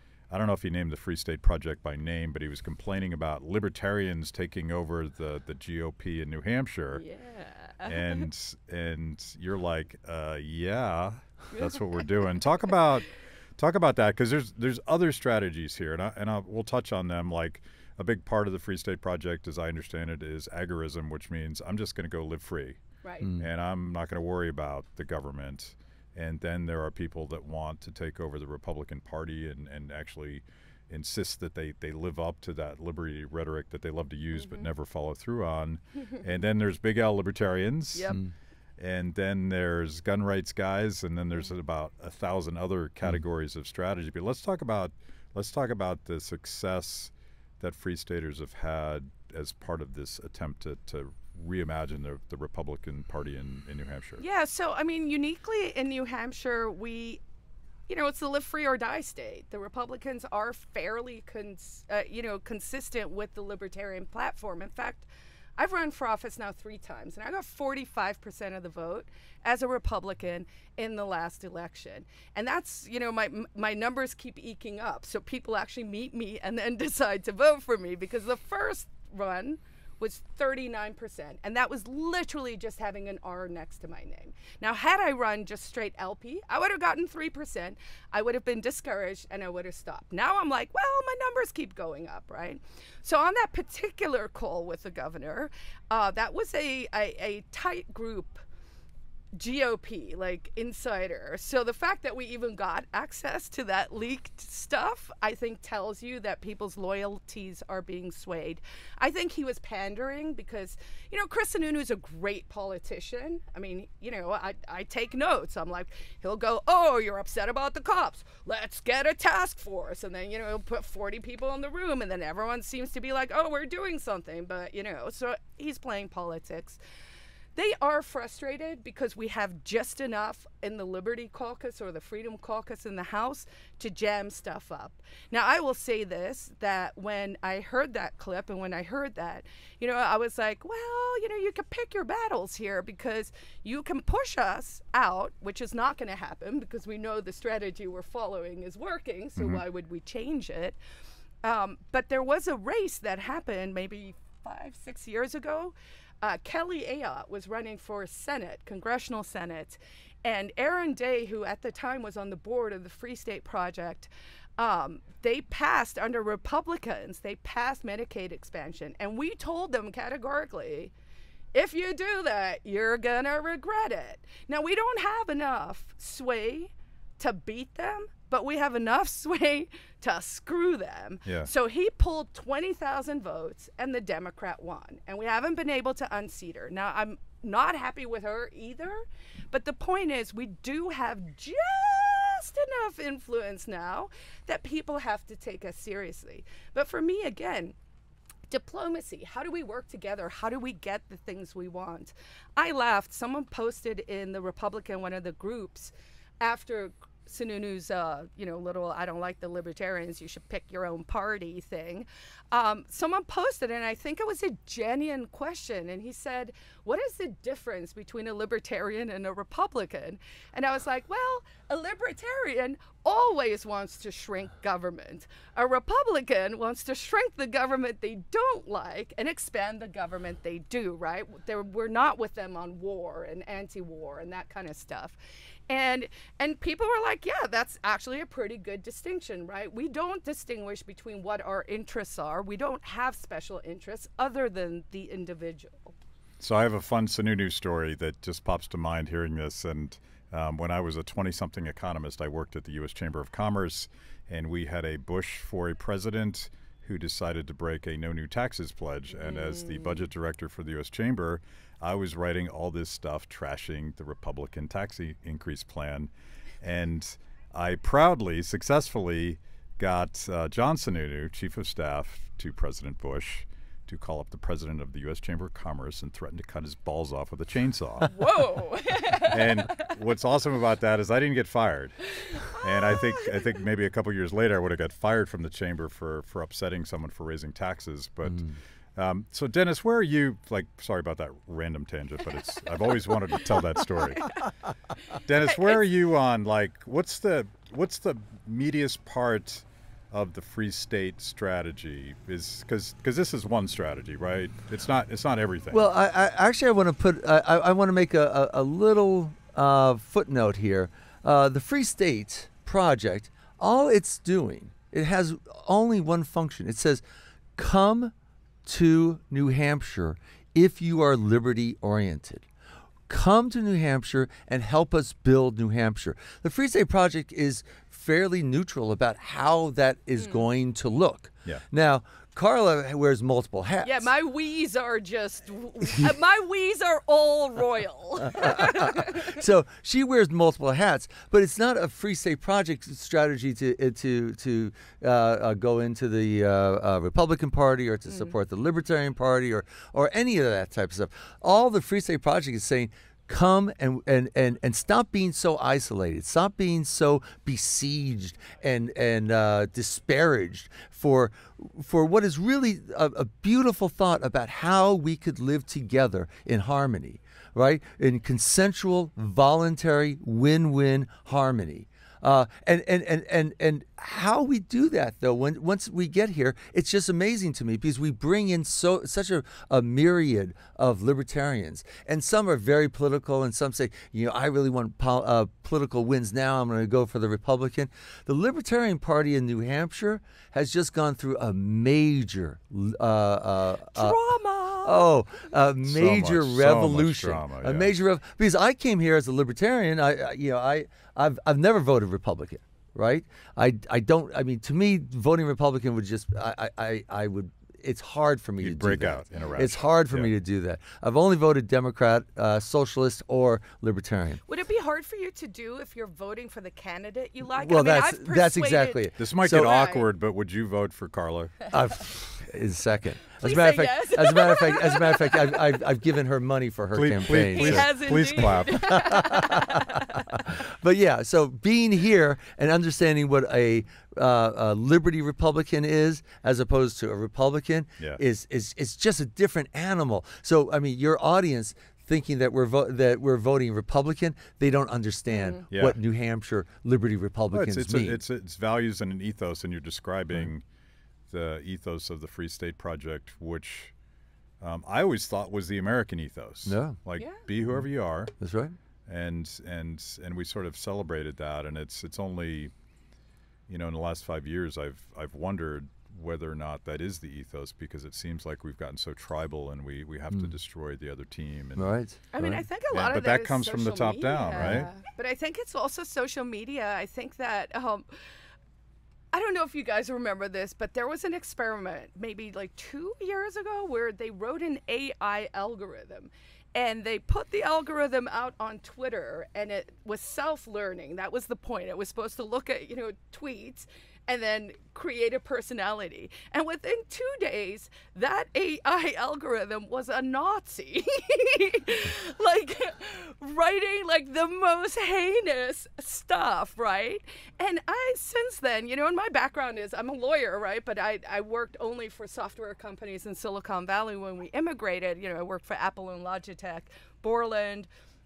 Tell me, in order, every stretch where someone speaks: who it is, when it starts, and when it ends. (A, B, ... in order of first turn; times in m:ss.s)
0:00.3-0:07.0 A
0:06.9-0:08.2 B
0:07.8-0:22.8 A
0:23.0-0:23.3 B
0:23.4-0:38.2 A
0:34.3-0:34.6 B
0:37.9-0:38.2 B
0:38.8-0:54.2 A
0:54.2-0:57.2 B
0:57.9-1:38.4 B
1:39.4-2:06.8 B
2:07.6-2:30.8 B
2:31.4-2:50.9 B
2:51.5-3:17.7 B
3:18.5-3:55.2 B
3:55.7-4:05.9 B
4:06.4-4:26.1 A
4:19.1-4:20.0 B
4:26.6-4:38.2 A
4:38.1-4:39.9 B
4:39.2-4:54.3 A
4:42.2-4:43.4 B
4:55.2-5:05.8 A
5:05.7-5:17.0 C
5:17.6-5:18.1 C
5:18.6-5:22.4 C
5:23.1-5:34.1 C
5:33.8-5:39.4 B
5:38.3-6:34.2 C
5:48.1-5:48.3 B
6:33.9-6:35.1 B
6:34.8-6:54.4 C
6:35.8-6:37.9 A
6:48.6-6:50.3 A
6:54.4-7:00.0 B
6:57.6-6:59.7 C
6:59.2-7:01.7 A
7:01.7-7:07.9 C
7:03.4-7:05.6 B
7:06.9-7:09.0 A
7:07.4-7:10.4 B
7:08.6-7:28.2 C
7:25.3-7:25.6 B
7:25.7-7:26.0 A
7:27.5-7:30.6 A
7:31.3-7:33.9 A
7:34.6-7:38.3 A
7:36.6-7:37.0 C
7:37.2-7:37.4 B
7:38.4-7:38.8 C
7:39.0-7:42.7 A
7:43.7-7:51.9 A
7:51.8-7:52.6 C
7:52.3-7:58.0 B
7:52.9-7:54.9 A
7:54.6-7:54.9 C
7:59.3-8:37.9 B